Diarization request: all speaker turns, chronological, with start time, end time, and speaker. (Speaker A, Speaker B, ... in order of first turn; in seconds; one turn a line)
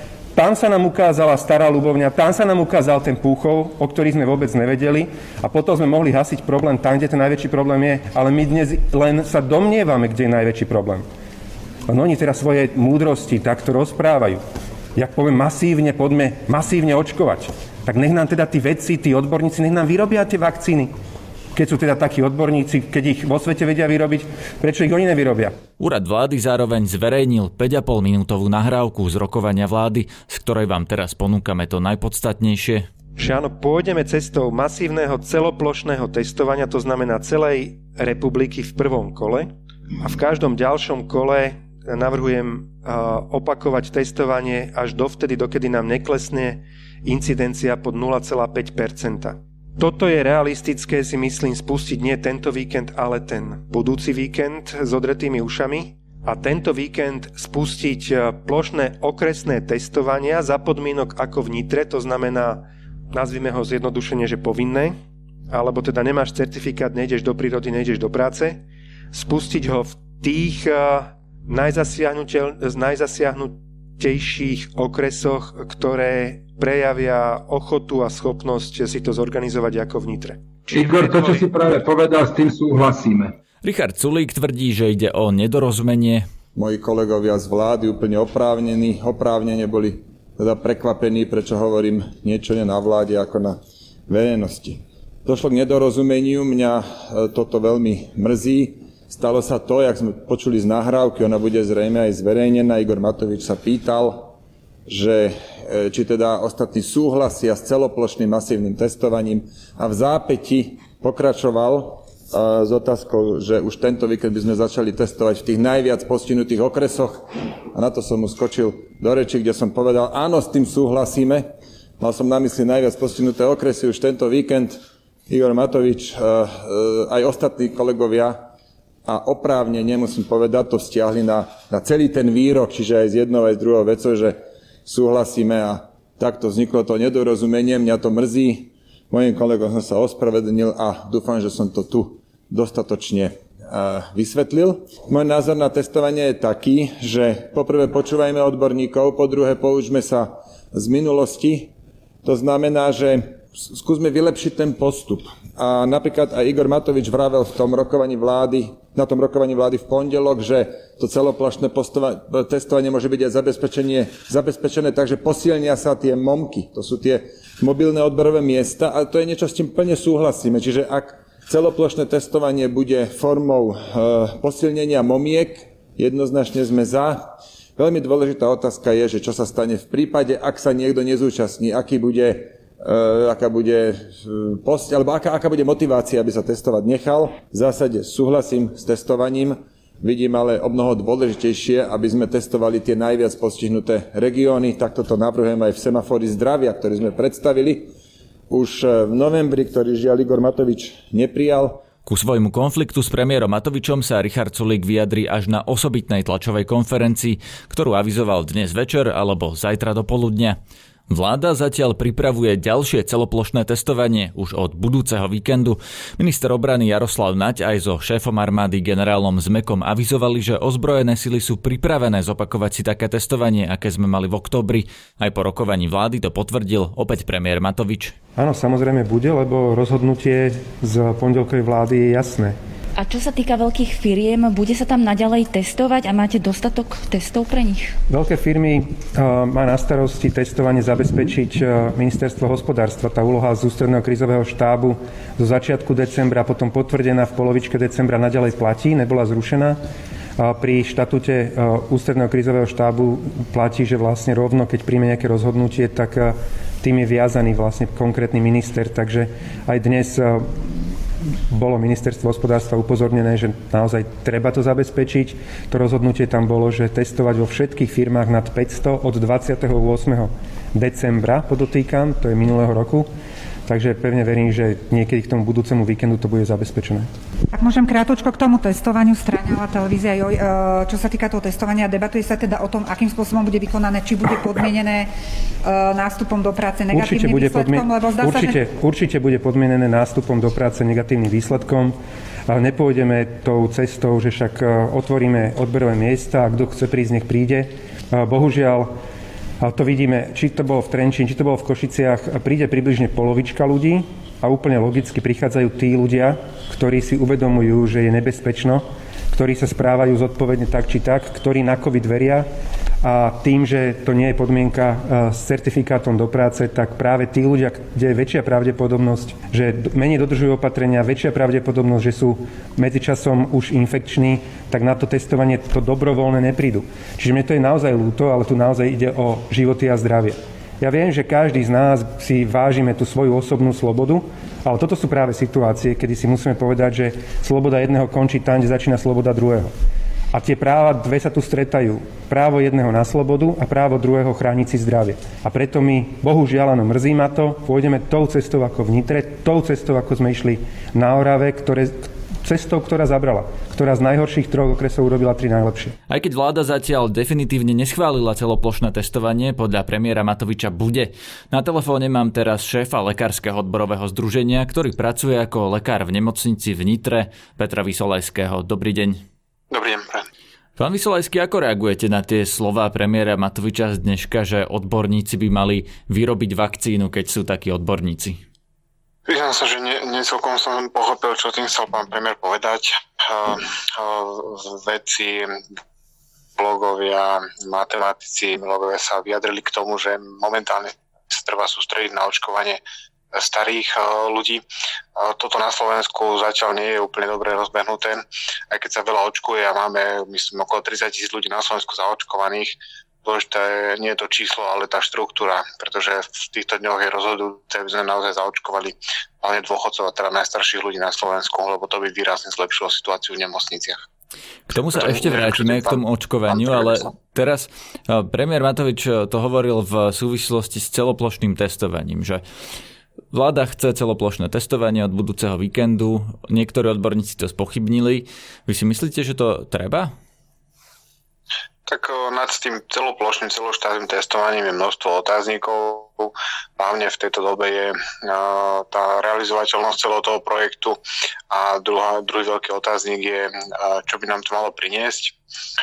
Speaker A: 0.3-11.1
Speaker A: 11.9-14.4
Speaker A: 14.9-20.9
Speaker A: 21.5-25.6
Speaker B: 25.8-32.9
Speaker A: 33.2-39.5
Speaker A: 40.0-65.0
Speaker A: 65.5-68.6
Speaker A: 69.1-80.4
Speaker C: 80.7-83.4
Speaker B: 83.6-86.3
Speaker D: 86.5-104.3
Speaker D: 104.9-121.5
Speaker D: 122.0-128.5
Speaker D: 129.1-151.7
Speaker D: 152.2-197.9
Speaker D: 198.5-201.8
Speaker B: 202.1-210.6
Speaker B: 211.1-228.2
Speaker A: 228.4-232.6
Speaker E: 233.0-237.9
Speaker A: 238.1-249.8
Speaker A: 250.4-260.7
Speaker A: 261.5-273.1
Speaker A: 273.7-277.1
Speaker F: 277.5-285.1
Speaker F: 285.6-288.6
Speaker A: 286.9-298.9
Speaker A: 299.6-312.5
Speaker A: 313.0-339.7
Speaker A: 340.3-355.9
Speaker B: 356.1-369.2
Speaker G: 369.7-370.3
Speaker B: 370.8-378.4
Speaker G: 379.3-385.6
Speaker G: 386.6-392.8
Speaker G: 393.3-394.6
Speaker G: 395.2-414.1
Speaker B: 414.7-422.4
Speaker G: 414.7-417.1
Speaker B: 423.3-430.1
Speaker G: 431.9-441.0
Speaker G: 441.5-445.4